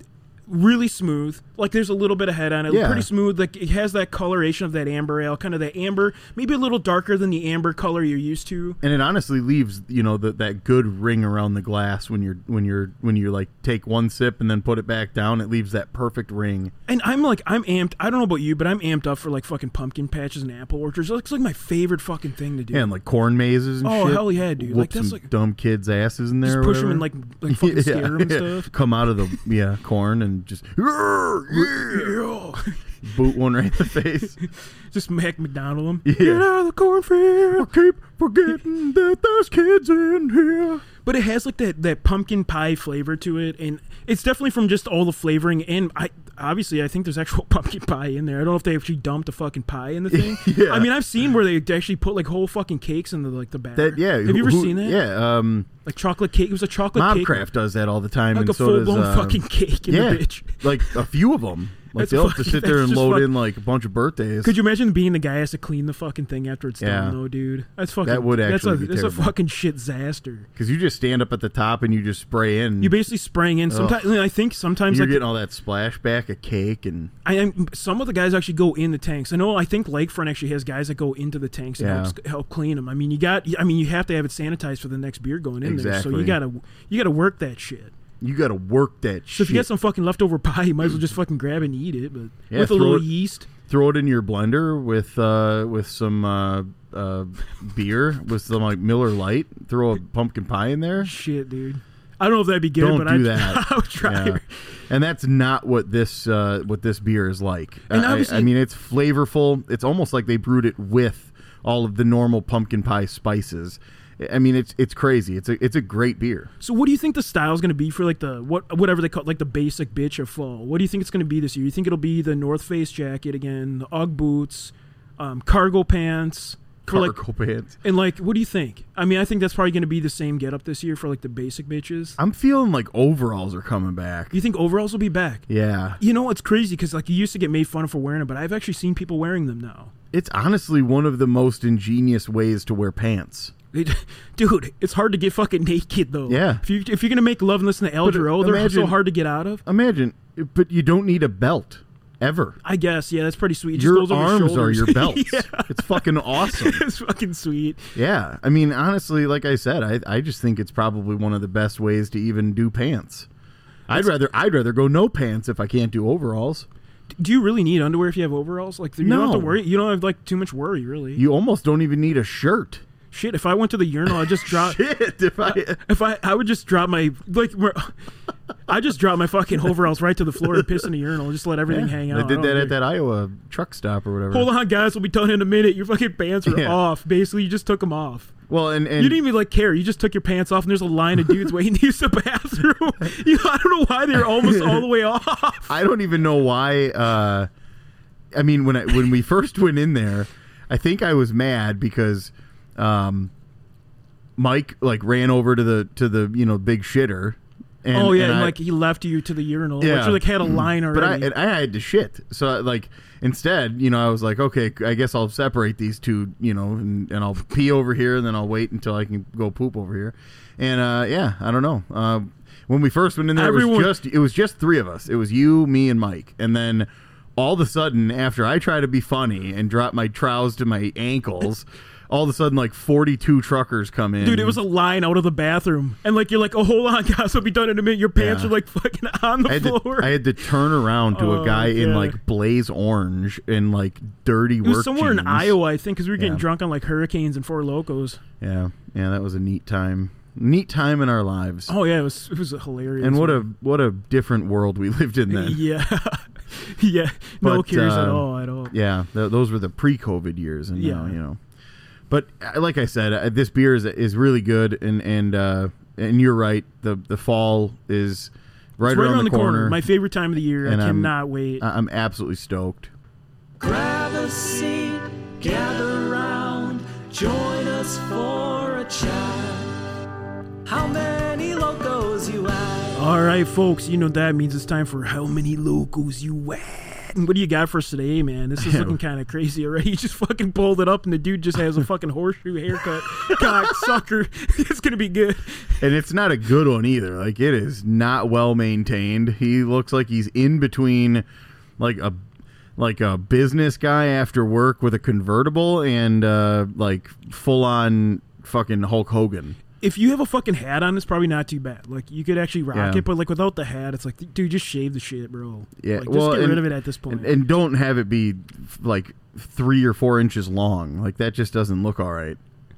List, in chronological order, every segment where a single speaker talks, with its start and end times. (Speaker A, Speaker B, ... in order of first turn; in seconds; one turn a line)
Speaker A: 0.5-8.8
Speaker B: 2.7-3.1
Speaker B: 8.8-16.7
Speaker A: 16.9-22.9
Speaker B: 22.7-32.2
Speaker A: 23.8-25.3
Speaker A: 26.4-28.7
Speaker A: 31.6-32.8
Speaker B: 33.0-34.4
Speaker A: 34.4-37.5
Speaker B: 36.0-40.8
Speaker A: 41.0-55.0
Speaker B: 50.1-50.9
Speaker B: 53.8-55.7
Speaker A: 55.8-57.4
Speaker B: 56.9-64.5
Speaker A: 58.3-61.0
Speaker A: 61.9-63.3
Speaker A: 64.4-70.5
Speaker B: 66.8-67.2
Speaker B: 68.0-69.3
Speaker B: 70.5-73.0
Speaker A: 72.8-75.2
Speaker B: 73.7-74.2
Speaker B: 74.9-77.1
Speaker A: 77.2-87.9
Speaker B: 81.8-82.1
Speaker B: 85.6-86.4
Speaker B: 88.2-89.7
Speaker A: 89.3-93.5
Speaker B: 92.5-101.1
Speaker A: 101.0-104.6
Speaker B: 102.8-116.5
Speaker A: 107.9-108.5
Speaker A: 116.6-127.2
Speaker B: 126.9-127.8
Speaker A: 127.8-132.2
Speaker B: 132.2-134.3
Speaker A: 134.3-135.5
Speaker B: 135.5-136.0
Speaker A: 136.0-139.9
Speaker B: 140.1-143.5
Speaker A: 143.7-149.6
Speaker B: 146.3-146.6
Speaker B: 148.0-149.0
Speaker B: 149.6-152.6
Speaker A: 152.6-157.9
Speaker B: 153.7-156.8
Speaker B: 157.9-163.3
Speaker B: 163.9-166.7
Speaker A: 167.2-171.2
Speaker B: 169.0-169.6
Speaker B: 171.2-172.8
Speaker A: 173.1-174.8
Speaker B: 174.1-175.8
Speaker A: 175.5-177.9
Speaker A: 178.7-182.8
Speaker B: 181.7-184.5
Speaker A: 184.3-188.3
Speaker B: 186.4-186.8
Speaker B: 188.5-189.2
Speaker A: 189.0-195.7
Speaker B: 194.3-194.8
Speaker B: 195.7-197.5
Speaker B: 198.3-203.3
Speaker B: 204.4-208.6
Speaker A: 207.9-211.3
Speaker B: 209.8-234.6
Speaker A: 223.3-223.9
Speaker A: 234.2-240.2
Speaker B: 238.2-238.5
Speaker B: 239.4-245.6
Speaker A: 241.1-242.2
Speaker A: 244.6-248.2
Speaker B: 246.2-246.4
Speaker B: 248.4-251.7
Speaker A: 251.7-253.4
Speaker B: 253.0-255.6
Speaker A: 255.3-258.7
Speaker B: 257.4-261.4
Speaker A: 260.7-261.2
Speaker B: 262.1-269.8
Speaker A: 268.8-271.6
Speaker B: 270.6-272.9
Speaker C: 273.6-279.8
Speaker C: 280.6-283.0
Speaker A: 282.9-295.8
Speaker B: 288.6-289.0
Speaker B: 293.3-294.0
Speaker B: 295.8-301.2
Speaker B: 301.8-302.2
Speaker B: 302.8-309.6
Speaker A: 309.8-317.4
Speaker B: 312.7-313.1
Speaker B: 315.8-322.4